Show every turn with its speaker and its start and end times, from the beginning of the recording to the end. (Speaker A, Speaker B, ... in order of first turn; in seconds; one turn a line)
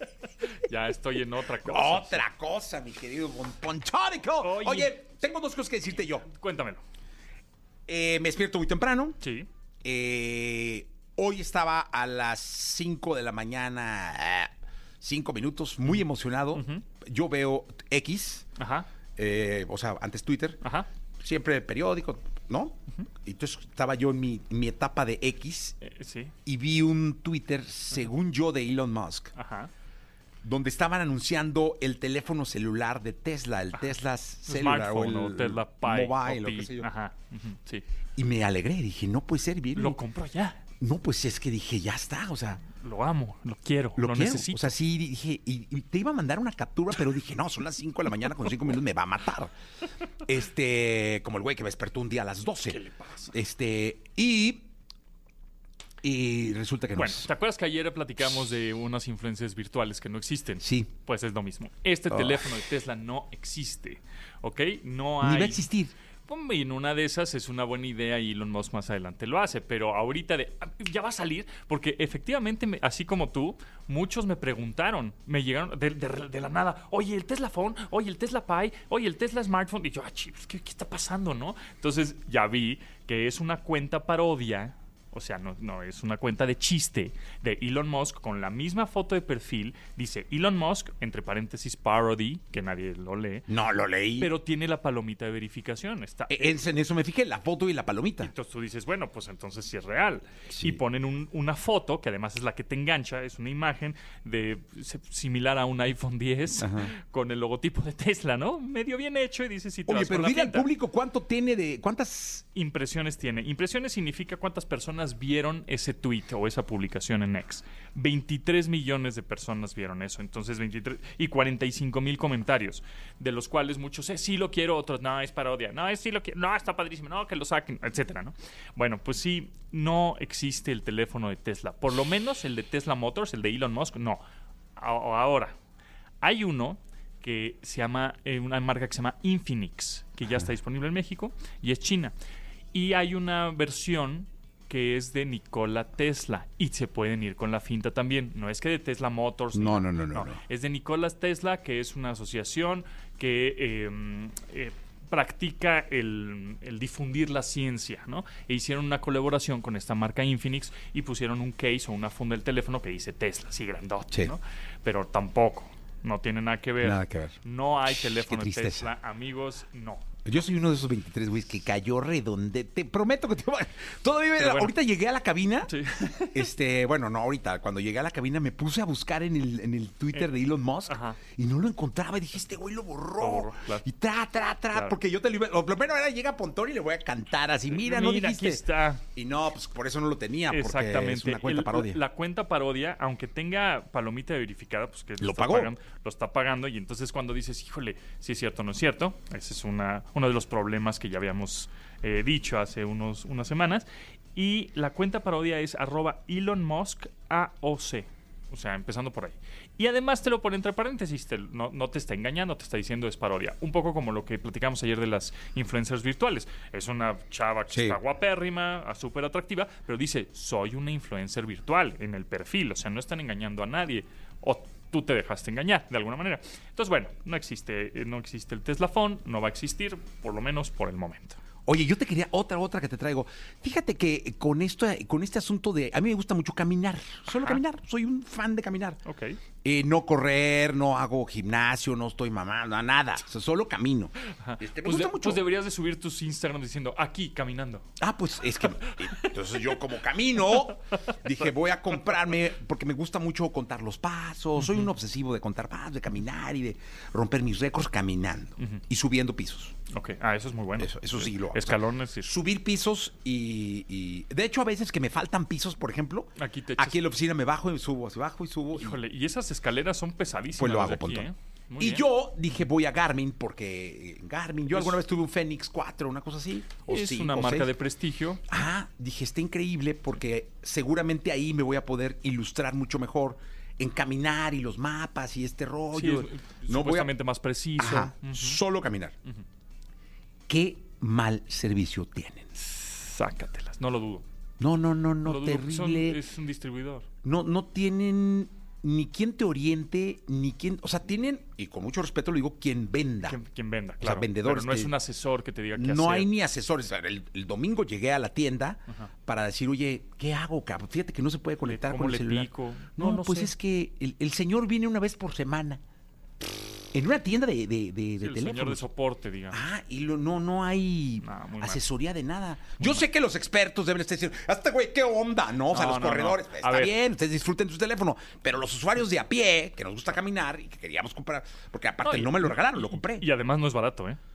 Speaker A: 0.4-2.3
Speaker B: 1.6-6.3
Speaker A: 4.4-4.9
Speaker A: 6.0-6.8
Speaker B: 7.9-9.2
Speaker A: 9.2-9.5
Speaker B: 9.8-18.5
Speaker A: 16.5-16.9
Speaker A: 18.6-18.9
Speaker B: 19.2-20.6
Speaker A: 20.6-20.9
Speaker B: 21.2-25.8
Speaker A: 25.8-26.3
Speaker B: 26.5-29.3
Speaker A: 29.4-29.7
Speaker B: 30.4-36.9
Speaker A: 34.5-37.9
Speaker B: 38.2-40.0
Speaker A: 39.8-40.6
Speaker B: 40.8-42.6
Speaker A: 42.7-44.8
Speaker B: 44.0-49.5
Speaker B: 50.2-54.7
Speaker A: 52.7-53.4
Speaker B: 56.0-57.3
Speaker A: 57.0-65.7
Speaker B: 60.6-60.9
Speaker B: 62.1-62.5
Speaker B: 65.2-65.9
Speaker A: 66.3-93.5
Speaker B: 93.5-94.3
Speaker A: 94.2-96.6
Speaker B: 96.3-98.3
Speaker A: 98.2-110.7
Speaker B: 100.5-100.8
Speaker B: 106.6-106.9
Speaker B: 109.9-112.5
Speaker A: 112.5-134.2
Speaker A: 134.8-135.5
Speaker A: 136.2-142.2
Speaker B: 140.2-140.5
Speaker A: 142.7-170.1
Speaker B: 149.5-150.4
Speaker B: 166.8-168.9
Speaker B: 170.2-188.6
Speaker A: 174.4-174.7
Speaker A: 175.7-176.5
Speaker A: 180.9-181.2
Speaker A: 183.2-183.8
Speaker A: 187.7-189.0
Speaker B: 189.2-192.0
Speaker A: 190.5-231.4
Speaker B: 195.2-195.7
Speaker B: 217.7-218.0
Speaker B: 231.7-239.0
Speaker A: 239.0-239.4
Speaker B: 239.6-245.4
Speaker A: 244.2-247.9
Speaker B: 248.0-259.7
Speaker A: 248.6-249.8
Speaker A: 250.4-251.2
Speaker A: 254.6-254.9
Speaker A: 259.9-262.3
Speaker B: 260.8-269.0
Speaker A: 266.4-267.0
Speaker A: 268.7-272.1
Speaker B: 270.6-277.7
Speaker A: 274.7-275.0
Speaker A: 276.9-278.5
Speaker B: 278.5-287.1
Speaker A: 285.9-288.6
Speaker B: 287.8-289.1
Speaker B: 290.5-292.5
Speaker A: 292.6-294.2
Speaker B: 294.6-296.2
Speaker A: 295.2-297.1
Speaker B: 297.2-303.4
Speaker A: 303.2-306.3
Speaker B: 304.0-304.9
Speaker B: 305.8-315.8
Speaker A: 311.6-313.5
Speaker B: 316.9-318.8
Speaker A: 318.2-319.6
Speaker B: 319.5-333.3
Speaker A: 321.2-321.8
Speaker A: 322.8-323.0
Speaker A: 325.7-327.0
Speaker A: 332.0-334.2